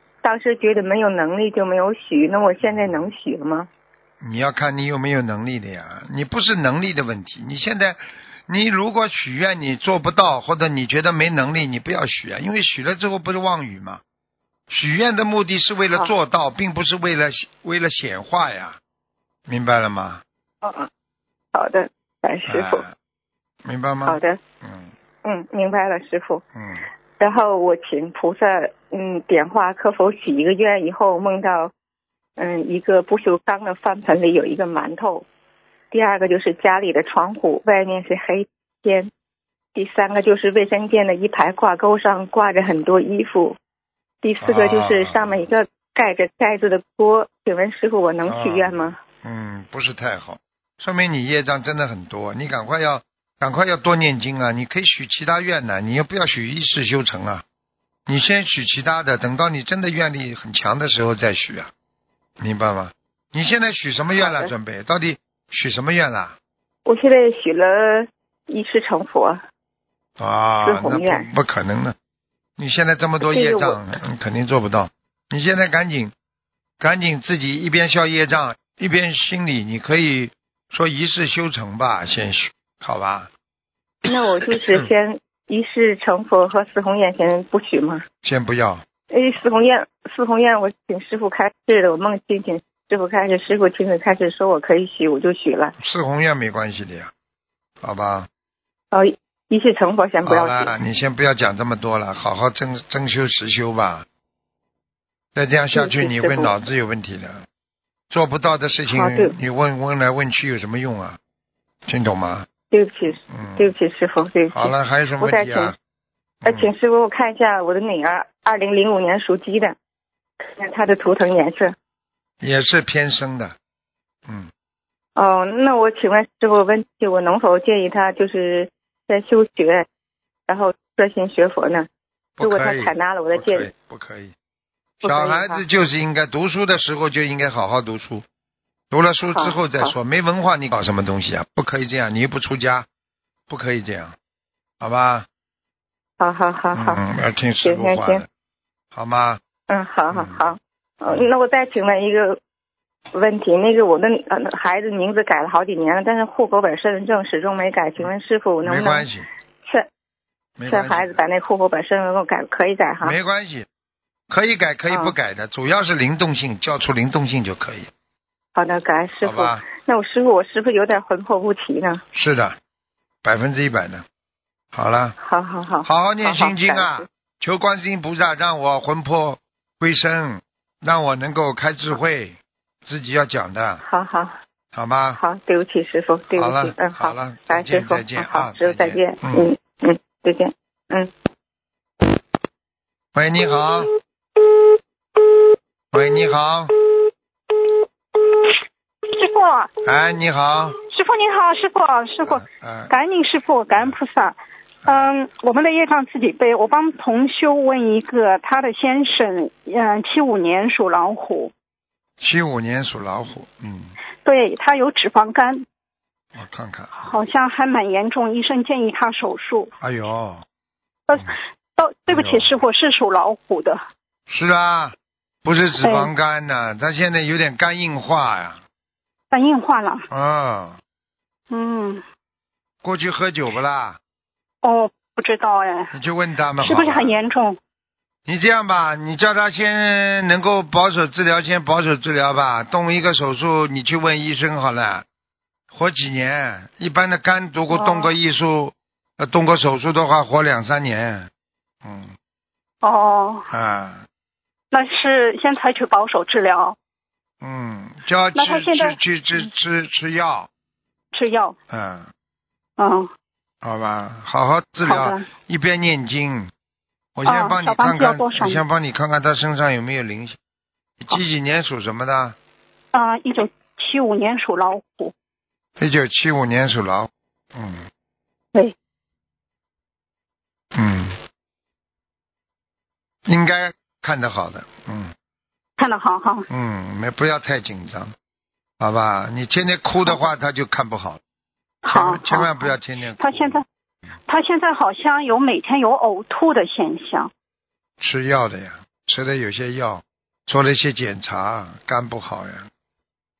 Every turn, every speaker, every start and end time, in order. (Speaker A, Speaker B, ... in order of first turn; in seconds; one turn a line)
Speaker A: 0.2-3.7
Speaker B: 4.2-14.0
Speaker B: 14.7-18.8
Speaker B: 19.5-20.2
Speaker A: 20.6-20.9
Speaker A: 21.5-22.8
Speaker B: 22.5-22.9
Speaker B: 23.6-24.9
Speaker A: 24.1-24.4
Speaker A: 25.2-26.4
Speaker B: 26.5-26.8
Speaker A: 27.2-31.7
Speaker A: 32.4-35.2
Speaker A: 35.9-39.1
Speaker A: 39.7-43.6
Speaker A: 44.2-49.0
Speaker B: 44.4-45.4
Speaker B: 48.2-57.4
Speaker B: 58.1-61.7
Speaker B: 62.4-66.4
Speaker A: 64.2-64.5
Speaker A: 66.8-69.4
Speaker B: 70.2-71.9
Speaker A: 70.6-71.3
Speaker B: 72.6-76.1
Speaker A: 73.2-73.8
Speaker B: 76.8-83.3
Speaker A: 84.0-88.0
Speaker B: 88.2-88.8
Speaker A: 89.1-95.7
Speaker B: 95.8-97.1
Speaker B: 97.8-98.3
Speaker A: 98.9-100.7
Speaker B: 100.2-104.0
Speaker B: 105.3-107.4
Speaker A: 105.7-106.5
Speaker B: 108.1-111.2
Speaker A: 108.9-109.3
Speaker B: 111.9-112.5
Speaker A: 112.7-115.7
Speaker B: 113.3-113.7
Speaker B: 114.5-115.8
Speaker A: 116.4-119.7
Speaker A: 120.6-121.7
Speaker B: 122.4-123.5
Speaker A: 125.2-129.8
Speaker A: 130.5-131.9
Speaker B: 132.4-134.3
Speaker A: 132.4-133.7
Speaker B: 135.0-138.2
Speaker A: 135.0-135.6
Speaker B: 138.9-142.8
Speaker A: 139.3-139.9
Speaker B: 143.5-144.1
Speaker B: 144.8-145.3
Speaker A: 146.2-147.0
Speaker B: 146.7-148.2
Speaker A: 147.6-148.2
Speaker B: 148.9-149.4
Speaker A: 149.7-152.4
Speaker A: 153.1-159.1
Speaker B: 158.6-159.3
Speaker B: 160.6-161.2
Speaker A: 160.7-163.1
Speaker B: 163.0-163.7
Speaker B: 164.3-167.9
Speaker A: 168.5-172.0
Speaker B: 169.2-169.6
Speaker B: 172.1-172.6
Speaker B: 173.2-174.0
Speaker B: 174.7-175.2
Speaker A: 175.2-177.1
Speaker B: 175.8-183.8
Speaker A: 183.8-184.3
Speaker B: 184.7-185.2
Speaker A: 185.2-191.1
Speaker B: 186.3-189.5
Speaker B: 193.1-193.9
Speaker B: 195.9-196.7
Speaker C: 199.1-199.7
Speaker B: 199.8-200.8
Speaker C: 200.9-211.5
Speaker B: 202.2-203.0
Speaker B: 212.2-213.9
Speaker C: 214.2-215.6
Speaker B: 216.3-217.0
Speaker C: 216.9-219.7
Speaker B: 219.8-220.4
Speaker C: 221.1-223.8
Speaker B: 222.1-222.5
Speaker B: 224.3-228.6
Speaker C: 225.8-226.1
Speaker C: 229.3-230.1
Speaker B: 230.1-230.8
Speaker C: 231.5-232.0
Speaker B: 232.8-234.0
Speaker C: 234.6-235.9
Speaker B: 235.9-237.2
Speaker C: 236.6-237.6
Speaker B: 238.3-245.0
Speaker B: 245.7-251.3
Speaker C: 247.7-248.1
Speaker B: 251.8-252.1
Speaker C: 252.8-253.4
Speaker B: 253.5-254.0
Speaker C: 254.7-256.8
Speaker B: 257.4-260.5
Speaker C: 258.3-259.5
Speaker C: 261.1-261.6
Speaker B: 261.7-262.1
Speaker C: 262.8-263.1
Speaker B: 263.6-266.5
Speaker C: 264.8-265.2
Speaker B: 267.1-270.4
Speaker C: 267.2-268.6
Speaker B: 271.0-272.4
Speaker C: 272.9-275.1
Speaker B: 275.8-277.9
Speaker B: 280.7-281.2
Speaker B: 283.3-285.1
Speaker C: 285.8-286.5
Speaker B: 286.5-288.1
Speaker B: 288.8-291.2
Speaker C: 291.8-293.6
Speaker B: 291.9-293.6
Speaker C: 294.3-297.3
Speaker B: 298.0-302.7